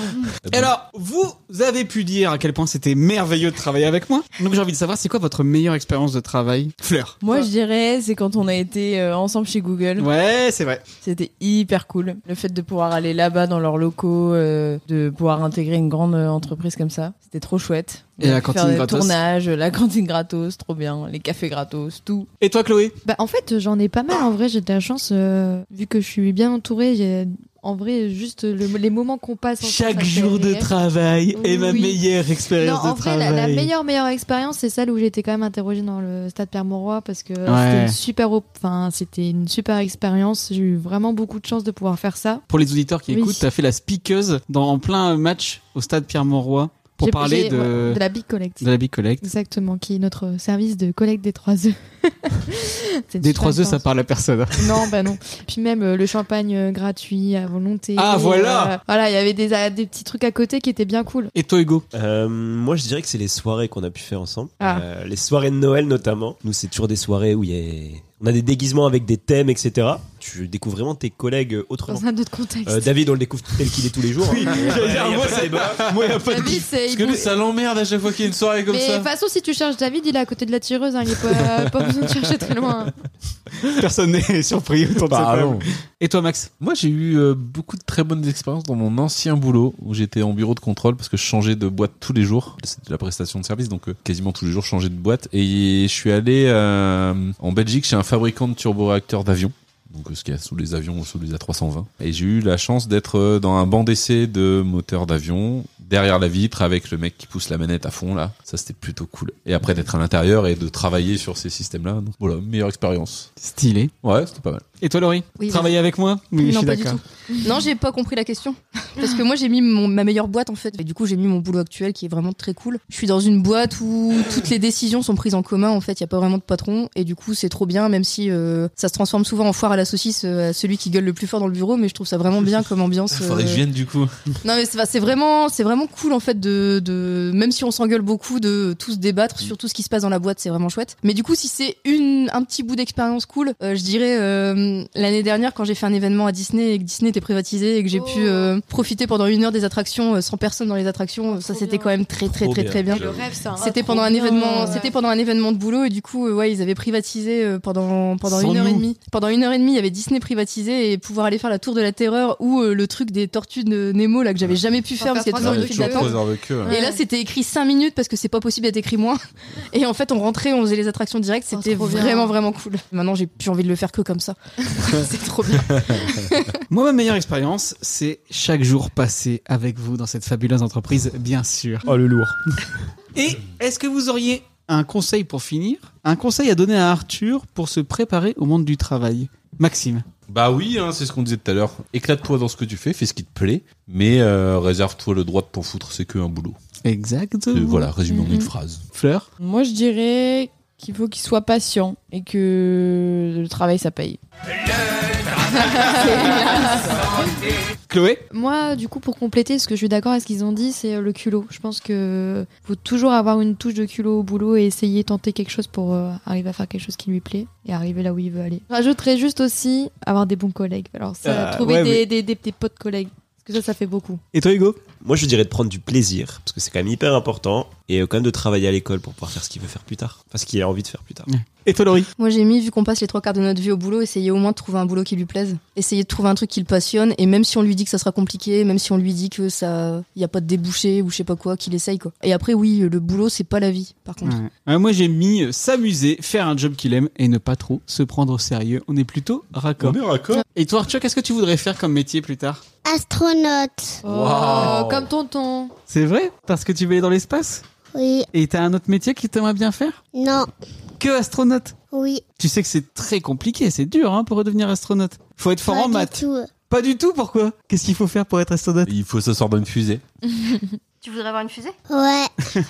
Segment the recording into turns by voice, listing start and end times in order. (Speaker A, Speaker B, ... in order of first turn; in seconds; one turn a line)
Speaker A: 0.4-0.7
Speaker B: 0.5-7.2
Speaker C: 7.2-10.1
Speaker B: 10.0-10.8
Speaker C: 11.0-22.3
Speaker B: 18.2-19.2
Speaker B: 22.4-23.0
Speaker D: 23.1-30.7
Speaker B: 29.6-33.7
Speaker D: 31.4-32.0
Speaker D: 32.6-42.4
Speaker B: 37.5-38.0
Speaker B: 42.5-48.0
Speaker D: 43.1-43.4
Speaker D: 47.0-48.7
Speaker B: 48.6-49.2
Speaker D: 49.2-53.9
Speaker B: 53.2-54.9
Speaker D: 54.5-61.3
Speaker B: 58.0-58.8
Speaker B: 61.4-61.9
Speaker E: 61.9-72.0
Speaker D: 64.6-64.9
Speaker D: 71.9-72.9
Speaker E: 72.7-76.0
Speaker B: 74.2-76.7
Speaker A: 74.7-75.9
Speaker D: 76.2-77.3
Speaker A: 76.8-79.1
Speaker D: 78.7-82.9
Speaker A: 81.3-82.3
Speaker B: 83.7-86.5
Speaker A: 85.1-85.7
Speaker A: 86.6-113.3
Speaker B: 113.4-113.9
Speaker A: 114.0-114.7
Speaker B: 114.8-117.0
Speaker F: 115.4-115.8
Speaker F: 116.4-133.6
Speaker A: 133.1-134.1
Speaker F: 134.4-169.2
Speaker D: 147.9-148.5
Speaker D: 151.3-152.0
Speaker E: 152.2-153.1
Speaker D: 152.9-154.9
Speaker A: 152.9-153.2
Speaker B: 158.2-158.9
Speaker D: 165.0-167.0
Speaker A: 165.4-166.8
Speaker F: 169.7-176.6
Speaker D: 171.5-172.4
Speaker B: 176.7-181.9
Speaker E: 181.9-182.4
Speaker B: 183.2-190.1
Speaker A: 190.3-196.6
Speaker B: 196.8-197.9
Speaker A: 197.5-198.8
Speaker D: 198.1-198.5
Speaker B: 198.9-199.3
Speaker C: 199.4-204.2
Speaker C: 205.7-207.1
Speaker D: 205.7-206.6
Speaker B: 207.9-208.2
Speaker D: 208.3-224.2
Speaker B: 221.2-222.1
Speaker B: 224.3-224.8
Speaker E: 225.0-231.3
Speaker B: 231.3-232.1
Speaker F: 232.2-244.4
Speaker B: 244.2-250.0
Speaker A: 249.8-250.4
Speaker B: 250.5-252.6
Speaker G: 252.8-254.0
Speaker A: 254.0-255.1
Speaker D: 254.0-255.7
Speaker B: 255.9-257.6
Speaker G: 257.9-258.3
Speaker B: 258.3-260.0
Speaker G: 260.1-260.5
Speaker B: 261.0-261.8
Speaker G: 261.9-262.2
Speaker B: 262.4-268.9
Speaker G: 265.7-266.5
Speaker A: 268.9-270.0
Speaker F: 271.0-271.8
Speaker G: 271.9-272.3